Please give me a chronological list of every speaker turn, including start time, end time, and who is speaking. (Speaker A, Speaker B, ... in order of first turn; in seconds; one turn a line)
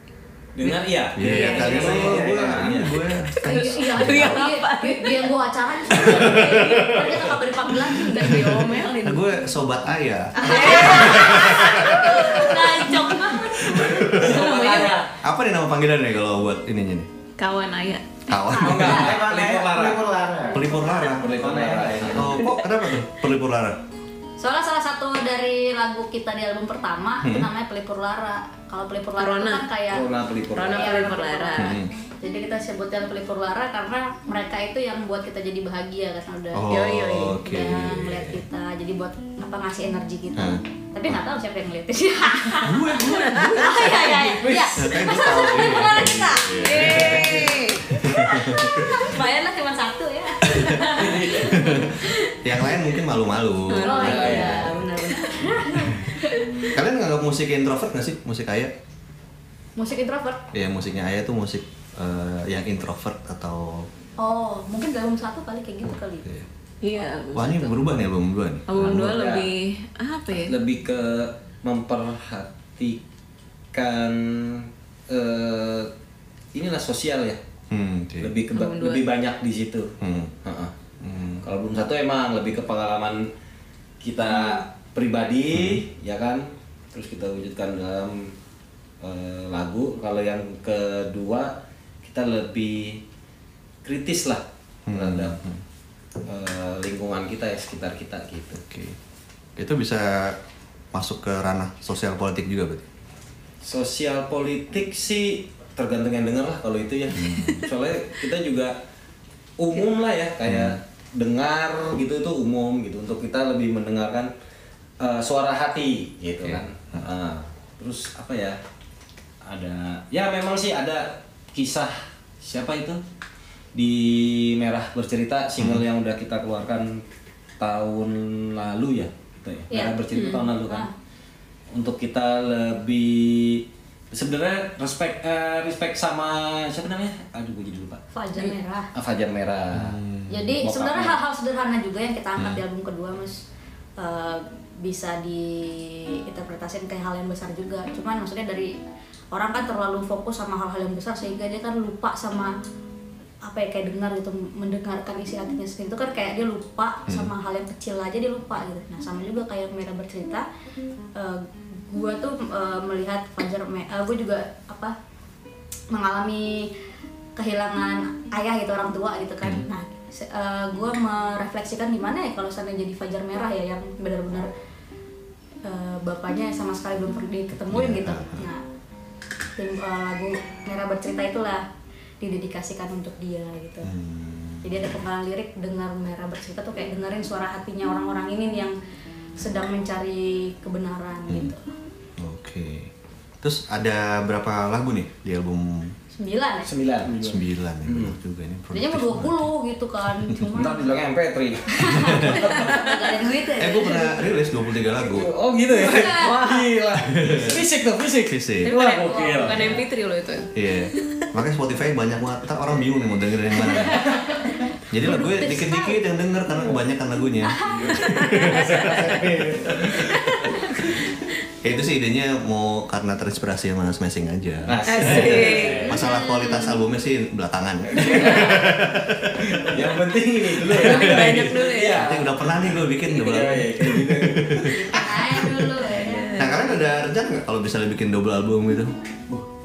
Speaker A: 0.5-3.0
Speaker B: 0.6-2.2
Speaker C: 1.1-4.4
Speaker D: 1.6-2.7
Speaker E: 3.4-8.9
Speaker B: 3.5-5.3
Speaker B: 6.0-6.9
Speaker C: 6.2-7.2
Speaker B: 7.8-9.2
Speaker C: 9.0-12.4
Speaker E: 10.4-13.8
Speaker B: 10.4-13.0
Speaker C: 13.7-14.3
Speaker D: 13.7-14.8
Speaker A: 14.2-15.0
Speaker B: 14.2-15.0
Speaker C: 15.2-17.1
Speaker B: 17.4-18.0
Speaker C: 18.3-19.0
Speaker A: 18.6-20.1
Speaker D: 18.8-22.4
Speaker C: 20.5-21.4
Speaker A: 21.0-22.4
Speaker C: 22.1-23.8
Speaker E: 24.4-30.1
Speaker C: 27.2-27.5
Speaker B: 29.2-29.7
Speaker A: 29.9-31.1
Speaker B: 30.5-31.8
Speaker E: 30.7-36.6
Speaker C: 31.6-31.9
Speaker C: 36.5-38.4
Speaker B: 36.7-37.4
Speaker E: 37.2-46.8
Speaker C: 40.4-40.6
Speaker B: 43.0-44.1
Speaker A: 43.9-44.8
Speaker C: 44.8-49.0
Speaker B: 46.5-47.9
Speaker E: 48.1-52.3
Speaker C: 50.5-51.9
Speaker A: 50.9-51.9
Speaker C: 52.4-54.8
Speaker B: 53.7-55.5
Speaker E: 53.8-56.7
Speaker A: 53.8-54.7
Speaker C: 56.7-58.7
Speaker E: 59.8-60.4
Speaker C: 60.5-63.9
Speaker E: 64.2-66.2
Speaker B: 66.8-67.8
Speaker C: 67.3-69.2
Speaker B: 68.7-70.5
Speaker A: 68.8-69.5
Speaker A: 70.3-73.0
Speaker A: 73.7-75.9
Speaker A: 76.5-77.4
Speaker C: 77.7-78.4
Speaker A: 78.2-79.9
Speaker B: 78.5-79.0
Speaker C: 80.0-80.3
Speaker A: 80.4-80.7
Speaker C: 81.0-81.4
Speaker A: 81.4-83.3
Speaker A: 84.0-88.3
Speaker C: 85.5-85.8
Speaker A: 89.0-93.0
Speaker A: 93.8-94.4
Speaker C: 94.9-95.6
Speaker A: 94.9-95.4
Speaker A: 96.2-98.6
Speaker C: 98.5-99.0
Speaker C: 99.5-100.4
Speaker C: 100.9-102.8
Speaker A: 103.6-108.8
Speaker C: 107.1-107.7
Speaker A: 109.6-114.3
Speaker C: 110.4-110.8
Speaker A: 115.0-118.6
Speaker C: 116.4-117.0
Speaker A: 119.5-123.0
Speaker A: 123.7-127.0
Speaker C: 125.6-125.8
Speaker A: 127.6-130.9
Speaker E: 129.7-130.0
Speaker B: 130.1-130.5
Speaker A: 131.7-140.0
Speaker E: 138.1-138.9
Speaker C: 139.7-140.5
Speaker E: 140.3-143.4
Speaker A: 140.6-141.2
Speaker E: 144.0-148.7
Speaker E: 149.3-152.5
Speaker E: 153.4-160.4
Speaker E: 161.2-164.9
Speaker E: 165.9-166.7
Speaker E: 167.3-174.5
Speaker E: 175.7-178.6
Speaker C: 177.7-178.4
Speaker E: 179.6-181.6
Speaker E: 182.2-183.9
Speaker C: 183.8-185.0
Speaker E: 184.6-188.7
Speaker E: 189.4-191.7
Speaker C: 192.2-195.9
Speaker E: 196.1-196.7
Speaker A: 196.6-198.1
Speaker C: 197.2-199.5
Speaker E: 198.7-200.9
Speaker A: 200.5-202.9
Speaker E: 201.8-204.2
Speaker C: 201.9-202.4
Speaker C: 203.6-205.3
Speaker A: 204.9-209.8
Speaker E: 205.8-206.3
Speaker B: 205.8-206.8
Speaker C: 207.0-207.6
Speaker C: 208.3-208.7
Speaker B: 208.6-211.2
Speaker E: 208.8-209.8
Speaker C: 210.5-214.1
Speaker E: 213.8-216.0
Speaker C: 214.9-220.0
Speaker E: 217.5-217.9
Speaker B: 218.2-219.0
Speaker A: 218.7-219.8
Speaker B: 220.1-220.6
Speaker C: 221.6-229.8
Speaker A: 224.6-226.0
Speaker B: 224.9-226.0
Speaker E: 225.8-226.7
Speaker A: 227.9-228.7
Speaker A: 229.6-235.5
Speaker B: 230.8-232.1
Speaker D: 230.9-231.3
Speaker C: 231.9-234.8
Speaker E: 234.7-236.7
Speaker B: 235.9-236.9
Speaker C: 236.4-238.9